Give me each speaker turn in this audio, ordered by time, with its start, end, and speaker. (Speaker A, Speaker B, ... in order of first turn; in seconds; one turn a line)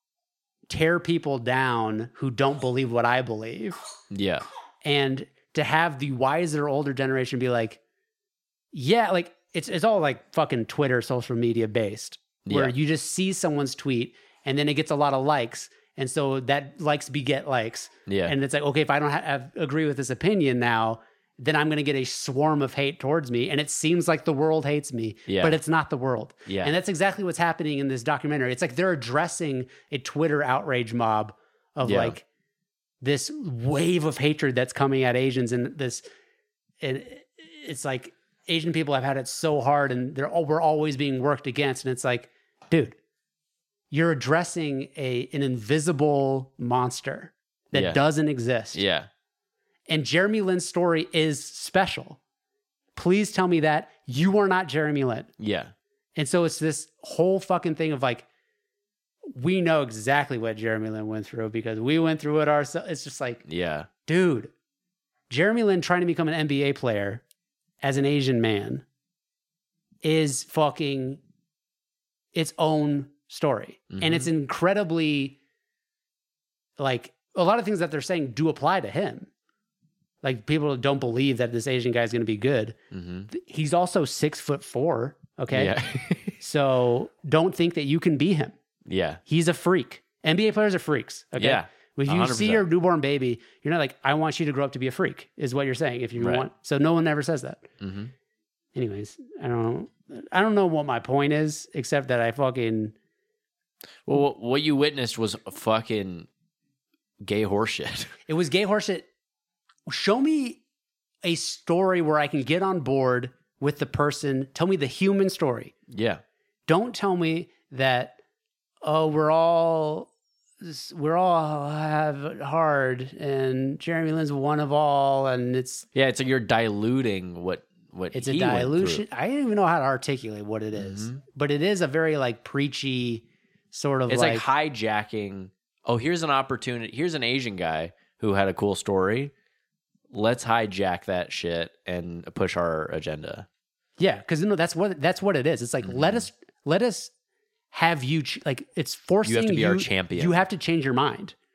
Speaker A: 0.7-3.8
Speaker B: 4.1-4.4
Speaker A: 4.8-7.8
Speaker A: 8.7-32.2
Speaker B: 12.4-12.7
Speaker B: 18.1-18.3
Speaker B: 25.3-25.6
Speaker B: 26.5-26.7
Speaker B: 31.8-32.1
Speaker A: 33.0-36.0
Speaker A: 36.8-43.0
Speaker A: 43.9-48.8
Speaker B: 47.7-48.0
Speaker B: 48.7-49.1
Speaker A: 49.9-52.2
Speaker A: 53.0-55.3
Speaker B: 55.4-55.7
Speaker A: 56.1-58.2
Speaker A: 59.3-63.4
Speaker B: 63.5-63.9
Speaker A: 64.0-64.5
Speaker A: 65.3-67.2
Speaker A: 67.8-68.8
Speaker A: 70.0-71.2
Speaker A: 72.3-75.4
Speaker B: 73.9-74.3
Speaker A: 76.8-79.3
Speaker A: 80.2-82.8
Speaker B: 82.9-83.3
Speaker A: 83.3-85.7
Speaker B: 85.5-86.3
Speaker A: 86.4-88.5
Speaker B: 88.8-89.2
Speaker A: 89.3-97.7
Speaker B: 91.4-92.6
Speaker B: 96.2-96.5
Speaker B: 97.8-98.1
Speaker A: 98.7-102.9
Speaker B: 104.0-106.3
Speaker B: 107.2-108.1
Speaker A: 108.3-109.1
Speaker A: 109.9-110.6
Speaker A: 111.2-115.7
Speaker B: 115.9-116.2
Speaker A: 116.7-118.2
Speaker A: 118.8-120.1
Speaker A: 120.6-125.8
Speaker B: 125.9-129.0
Speaker A: 128.1-134.4
Speaker B: 130.8-131.2
Speaker B: 134.1-139.3
Speaker B: 140.1-143.5
Speaker A: 144.0-147.1
Speaker B: 145.8-146.2
Speaker A: 147.7-151.3
Speaker B: 149.2-150.4